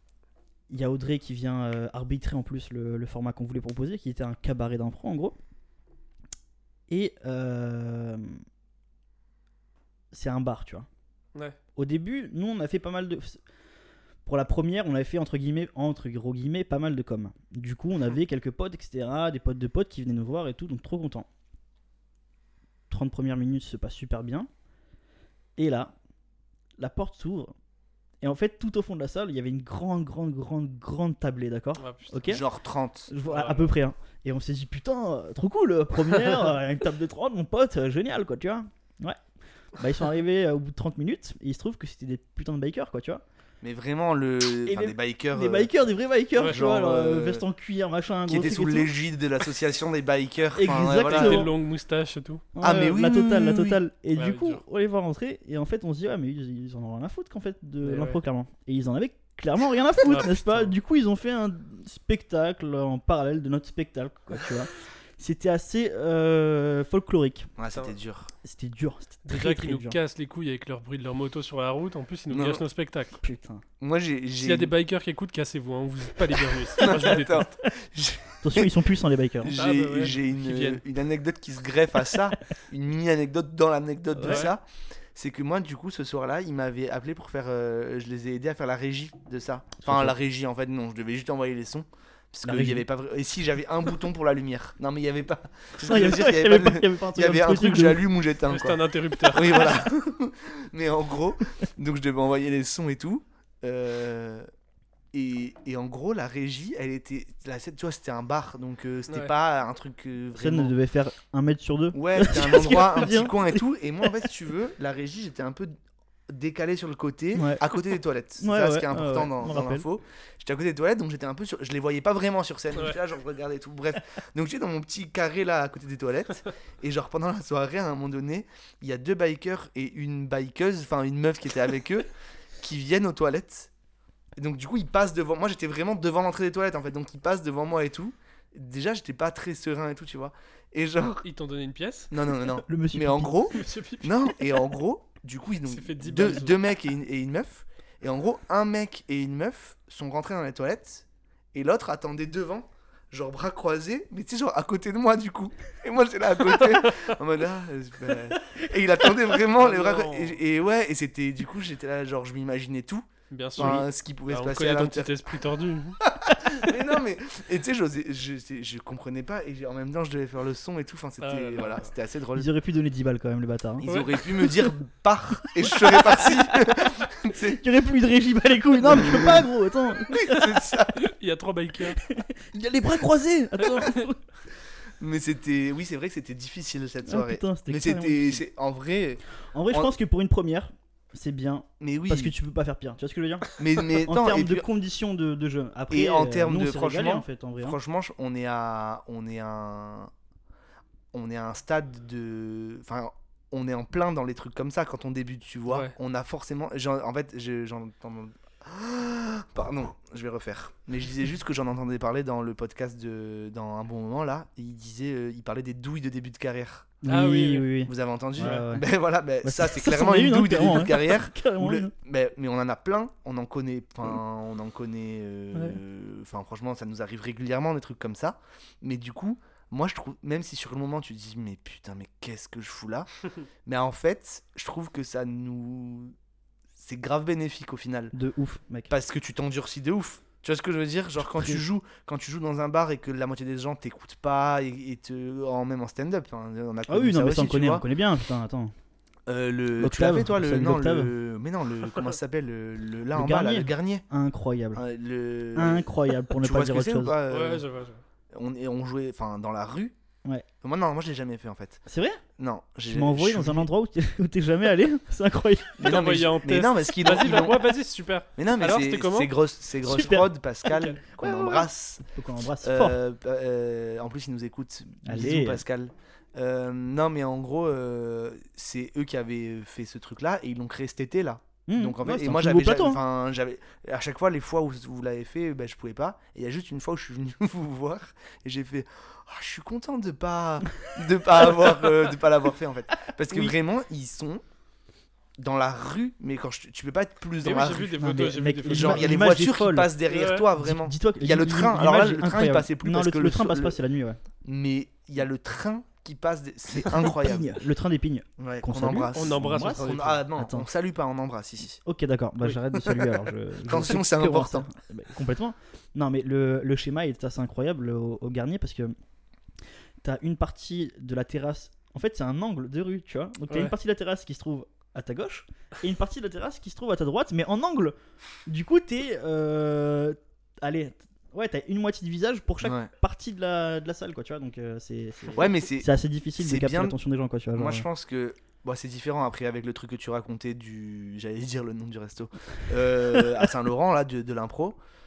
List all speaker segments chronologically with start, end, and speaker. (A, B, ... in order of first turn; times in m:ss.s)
0:00.7-0:05.4 A
0:06.9-0:08.3 A
0:10.1-0:10.9 A
0:11.8-0:13.4 A
0:14.2-0:21.3 A
0:22.9-0:24.5 A
0:25.6-0:25.9 A
0:26.8-0:27.5 A
0:28.2-0:32.4 A
0:31.8-0:32.4 B
0:32.3-0:33.1 C
0:33.1-0:39.2 A
0:33.2-0:33.7 B
0:39.8-0:43.2 A
0:43.6-0:45.7 C
0:44.6-0:48.9 A
0:46.4-0:47.4 C
0:48.3-0:51.5 C
0:50.6-0:51.5 A
0:51.0-0:52.4 B
0:52.6-1:07.5 A
0:52.6-0:53.8 C
0:54.2-0:54.6 B
0:57.8-0:58.2 B
1:00.1-1:00.7 B
1:07.6-1:08.3 C
1:08.4-1:10.0 A
1:09.2-1:13.2 B
1:12.3-1:12.6 C
1:13.2-1:13.6 A
1:13.8-1:14.7 C
1:14.4-1:17.6 B
1:16.8-1:18.7 C
1:16.8-1:17.1 A
1:18.4-1:19.5 A
1:19.4-1:24.6 C
1:19.6-1:20.8 B
1:24.1-1:24.5 A
1:24.2-1:24.5 B
1:25.2-1:44.5 C
1:29.8-1:30.2 A
1:32.4-1:32.8 A
1:35.8-1:38.0 A
1:38.5-1:39.7 B
1:45.1-1:50.7 C
1:50.4-1:54.1 A
1:51.9-1:55.7 C
1:56.3-2:12.1 C
1:57.3-1:57.6 A
1:58.4-1:59.9 A
2:12.6-2:13.7 C
2:14.4-2:21.2 C
2:21.2-2:22.1 B
2:22.1-2:43.0 C
2:22.6-2:23.4 A
2:23.5-2:24.4 B
2:25.7-2:26.6 B
2:36.6-2:37.1 B
2:39.6-2:40.4 B
2:43.3-2:46.0 B
2:43.6-2:45.2 C
2:46.0-2:52.5 C
2:51.2-2:51.9 B
2:52.4-2:54.7 A
2:53.8-2:57.6 C
2:55.6-2:56.5 A
2:57.4-3:00.7 A
2:58.8-2:59.4 C
3:00.1-3:01.0 C
3:01.0-3:02.0 B
3:02.0-3:04.2 A
3:03.6-3:04.0 B
3:05.0-3:09.9 C
3:07.1-3:08.5 A
3:09.5-3:17.8 A
3:11.8-3:12.3 C
3:13.6-3:14.7 C
3:15.9-3:20.1 C
3:21.1-3:37.0 C
3:25.7-3:25.9 B
3:37.0-3:38.9 A
3:37.1-3:37.7 B
3:37.9-3:53.1 C
3:38.4-3:38.6 B
3:39.4-3:41.9 A
3:45.5-3:45.8 A
3:53.7-3:56.1 C
3:56.8-3:58.2 C
3:58.1-3:58.9 A
3:58.9-4:07.8 C
4:01.2-4:01.6 A
4:06.9-4:08.7 A
4:09.3-4:14.1 C
4:09.8-4:11.1 A
4:13.1-4:14.8 A
4:14.7-4:17.7 C
4:15.6-4:17.2 A
4:17.3-4:18.0 B
4:18.3-4:19.9 C
4:20.6-4:21.8 C
4:21.9-4:22.2 A
4:22.4-4:23.7 C
4:22.9-4:26.0 A
4:25.8-4:27.8 C
4:25.8-4:29.3 B
4:28.4-4:32.1 C
4:29.8-4:30.3 A
4:30.7-4:31.0 B
4:31.1-4:33.0 A
4:32.6-4:54.4 C
4:35.0-4:35.6 A
4:41.7-4:43.0 A
4:53.3-4:53.6 A
4:55.4-4:58.0 C
4:57.4-4:59.2 B
4:58.0-5:00.0 A
4:58.7-5:03.8 C
5:00.1-5:00.5 B
5:00.6-5:04.2 A
5:04.4-5:07.6 C
5:06.7-5:10.7 A
5:08.4-5:11.8 C
5:09.1-5:10.2 B
5:11.8-5:18.9 A
5:13.7-5:14.7 C
5:20.0-5:28.0 A
5:28.5-5:37.9 A
5:32.6-5:32.9 C
5:35.4-5:37.0 C
5:37.5-5:44.8 C
5:43.1-5:43.5 A